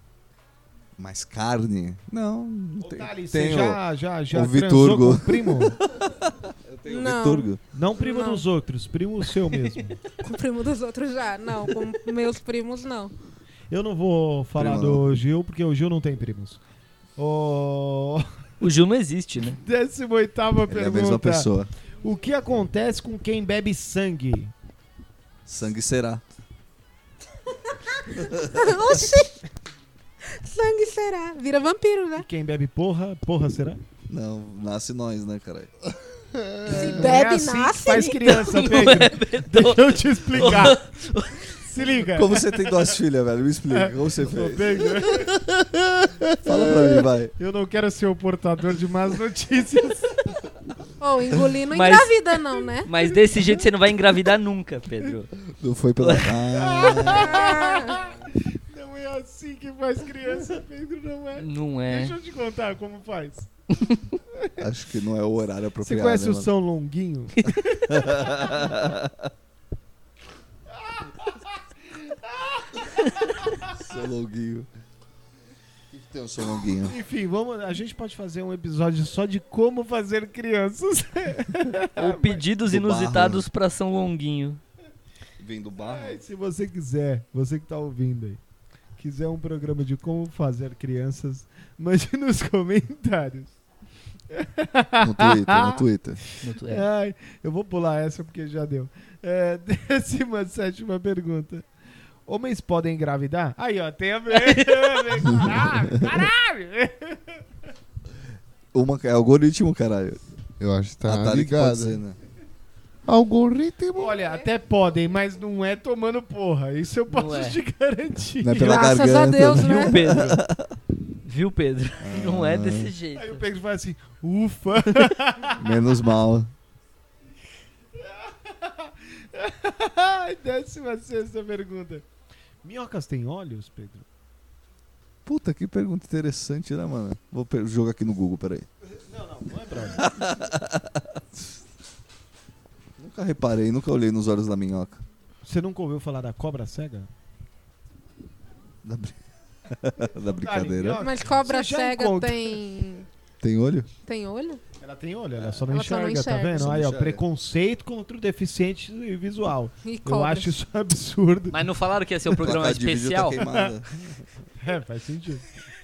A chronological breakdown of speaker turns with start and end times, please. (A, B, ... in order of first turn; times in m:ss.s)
0:01.0-0:07.6 A
0:02.8-0:05.8 B
0:06.9-0:08.4 C
0:07.7-0:10.0 B
0:10.2-0:13.1 C
0:13.7-0:16.6 B
0:14.6-0:15.2 A
0:17.2-0:18.3 B
0:18.6-0:19.6 D
0:19.6-0:21.5 B
0:20.7-0:21.7 A
0:22.0-0:24.5 B
0:25.5-0:26.2 A
0:27.9-0:29.5 C
0:30.2-0:32.3 C
0:32.2-0:33.8 B
0:34.1-0:35.7 A
0:36.2-0:37.0 E
0:36.7-0:38.3 C
0:36.7-0:40.8 B
0:37.9-0:41.6 D
0:41.6-0:42.9 B
0:42.1-0:45.3 A
0:43.7-0:45.3 B
0:46.4-0:47.3 A
0:47.4-0:50.3 B
0:51.0-0:52.9 C
0:51.7-0:52.1 D
0:52.8-0:55.4 D
0:55.5-0:57.4 A
0:56.0-0:56.4 D
0:56.5-1:03.5 B
0:57.1-0:58.1 C
1:01.4-1:02.2 D
1:04.4-1:04.6 B
1:04.6-1:06.5 A
1:05.8-1:08.4 B
1:07.9-1:09.3 A
1:10.8-1:13.7 B
1:13.6-1:14.7 A
1:15.9-1:17.0 A
1:16.8-1:22.4 B
1:22.0-1:24.6 D
1:22.7-1:23.4 A
1:25.4-1:26.2 A
1:25.8-1:28.4 B
1:29.0-1:33.5 B
1:34.3-1:41.7 B
1:35.0-1:36.2 A
1:36.4-1:36.8 D
1:42.3-1:47.4 B
1:44.3-1:45.2 D
1:45.3-1:45.8 A
1:48.7-1:50.2 A
1:50.6-1:52.0 E
1:51.0-1:52.2 A
1:53.1-1:54.2 E
1:54.0-1:58.8 B
1:57.1-1:57.6 D
1:58.4-2:00.7 A
1:58.6-2:00.2 C
1:59.6-2:00.4 D
2:01.2-2:03.4 D
2:02.0-2:02.9 A
2:03.2-2:05.7 B
2:05.6-2:06.5 A
2:08.0-2:12.1 B
2:12.6-2:14.0 B
2:15.3-2:18.7 A
2:18.8-2:20.1 B
2:20.0-2:21.0 A
2:23.0-2:25.0 A
2:25.4-2:27.1 B
2:28.8-2:29.2 A
2:29.7-2:31.0 A
2:30.3-2:32.6 B
2:31.0-2:33.1 C
2:33.4-2:33.9 A
2:34.0-2:34.6 C
2:34.8-2:41.6 B
2:35.4-2:35.7 A
2:35.7-2:36.7 C
2:36.5-2:37.2 A
2:39.8-2:40.5 C
2:41.5-2:43.4 D
2:42.4-2:44.2 A
2:44.6-2:45.5 B